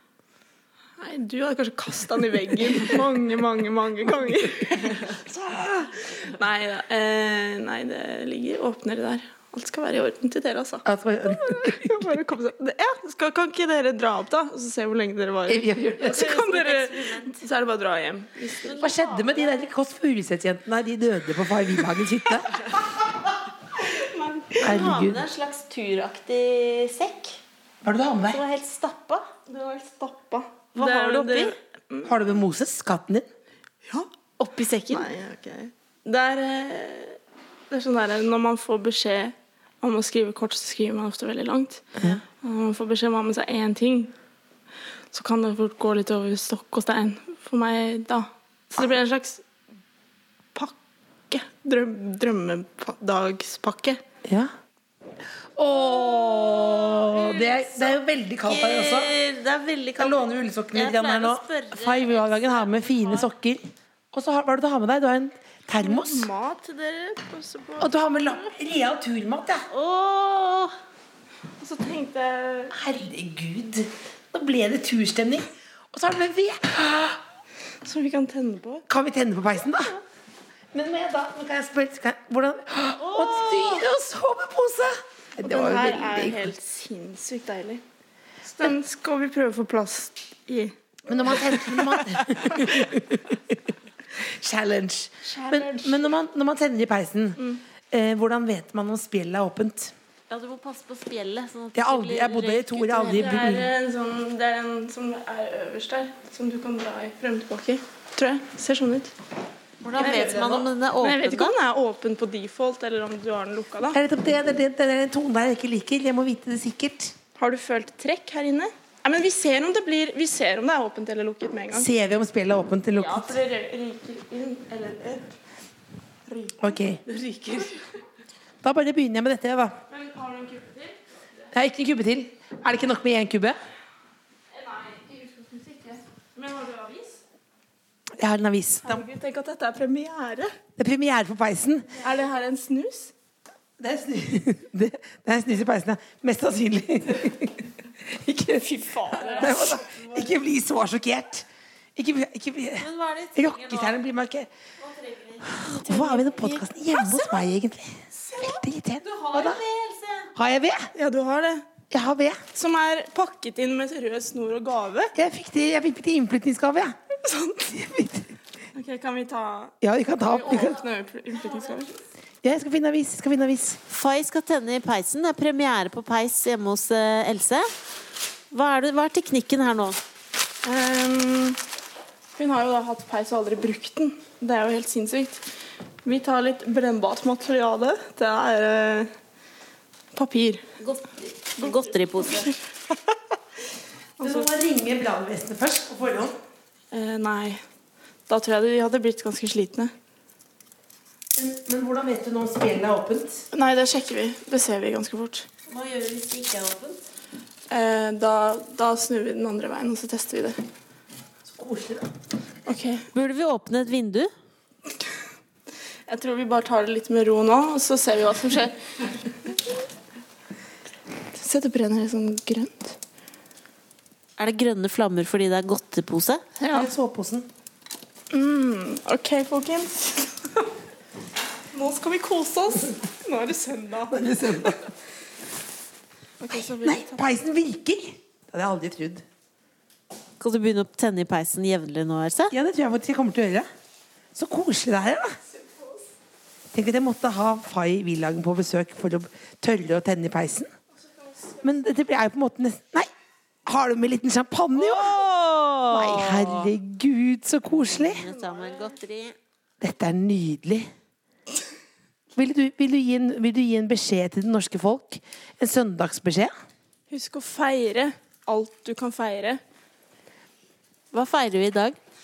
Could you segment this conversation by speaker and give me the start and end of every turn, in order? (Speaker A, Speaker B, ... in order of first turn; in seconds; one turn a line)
Speaker A: 1.0-18.9
Speaker B: 10.8-11.9
Speaker B: 15.5-16.2
Speaker C: 16.0-17.4
Speaker C: 18.6-19.6
Speaker B: 18.8-22.5
Speaker A: 22.5-22.9
Speaker A: 23.7-24.8
Speaker B: 24.6-25.2
Speaker C: 24.6-27.4
Speaker B: 27.8-28.4
Speaker C: 28.3-29.2
Speaker A: 29.5-32.1
Speaker C: 30.7-31.5
Speaker B: 32.0-33.2
Speaker C: 34.4-35.1
Speaker A: 34.9-37.2
Speaker A: 37.7-44.1
Speaker A: 45.1-49.4
Speaker A: 51.3-54.0
Speaker B: 54.2-54.5
Speaker B: 55.5-59.1
Speaker C: 55.7-63.3
Speaker B: 60.0-63.6
Speaker B: 64.1-66.3
Speaker A: 65.8-68.5
Speaker B: 67.8-69.7
Speaker C: 69.7-70.7
Speaker A: 71.6-72.8
Speaker B: 72.7-77.1
Speaker A: 77.8-78.8
Speaker B: 78.9-80.0
Speaker B: 80.7-86.5
Speaker C: 83.0-83.8
Speaker A: 85.4-87.8
Speaker A: 88.4-92.9
Speaker B: 91.1-93.6
Speaker B: 94.2-99.9
Speaker A: 95.2-96.1
Speaker C: 100.3-103.4
Speaker B: 101.7-103.7
Speaker A: 103.1-109.1
Speaker C: 109.8-111.5
Speaker A: 110.0-114.0
Speaker B: 110.1-110.4
Speaker B: 113.9-117.1
Speaker A: 117.4-121.9
Speaker B: 121.7-123.4
Speaker A: 122.9-125.4
Speaker A: 126.3-127.8
Speaker B: 126.6-127.0
Speaker B: 128.6-129.8
Speaker A: 129.9-131.0
Speaker B: 131.5-133.6
Speaker A: 134.5-137.2
Speaker B: 138.2-139.0
Speaker A: 138.8-140.6
Speaker B: 140.8-142.0
Speaker A: 142.0-143.1
Speaker B: 143.8-148.7
Speaker A: 148.4-149.9
Speaker C: 149.2-150.2
Speaker B: 149.3-154.5
Speaker C: 152.8-154.0
Speaker C: 154.8-157.5
Speaker B: 155.4-159.6
Speaker A: 158.3-158.5
Speaker C: 159.0-160.3
Speaker B: 160.3-160.9
Speaker A: 160.9-161.7
Speaker B: 161.9-162.4
Speaker A: 162.5-165.1
Speaker B: 165.2-166.9
Speaker A: 167.2-167.7
Speaker B: 167.7-168.3
Speaker A: 168.7-171.9
Speaker B: 169.8-170.8
Speaker C: 171.3-171.9
Speaker B: 172.4-173.8
Speaker C: 173.9-177.7
Speaker C: 178.5-180.0
Speaker A: 180.6-181.6
Speaker A: 182.3-185.4
Speaker A: 186.0-189.1
Speaker A: 190.1-190.7
Speaker C: 190.8-192.5
Speaker A: 191.6-192.6
Speaker A: 194.2-194.5
Speaker B: 194.2-196.3
Speaker A: 196.9-197.6
Speaker A: 198.3-199.9
Speaker B: 201.3-203.4
Speaker A: 203.5-205.5
Speaker C: 205.7-207.0
Speaker A: 207.7-210.6
Speaker B: 211.4-212.1
Speaker A: 212.7-213.1
Speaker C: 213.1-214.3
Speaker A: 216.1-219.5
Speaker A: 221.3-223.0
Speaker C: 224.4-226.4
Speaker A: 226.6-226.9
Speaker B: 226.7-227.5
Speaker A: 228.3-230.7
Speaker A: 231.7-234.8
Speaker B: 234.1-234.8
Speaker A: 236.4-237.3
Speaker B: 236.6-239.2
Speaker C: 240.4-242.5
Speaker B: 242.5-243.7
Speaker B: 244.3-245.4
Speaker B: 246.7-250.7
Speaker A: 251.2-251.6
Speaker B: 251.6-253.1
Speaker B: 253.7-255.2
Speaker C: 254.8-256.7
Speaker B: 255.9-258.2
Speaker C: 257.8-259.4
Speaker A: 258.2-258.9
Speaker B: 259.8-260.9
Speaker B: 262.3-266.5
Speaker A: 267.1-269.6
Speaker C: 271.1-272.0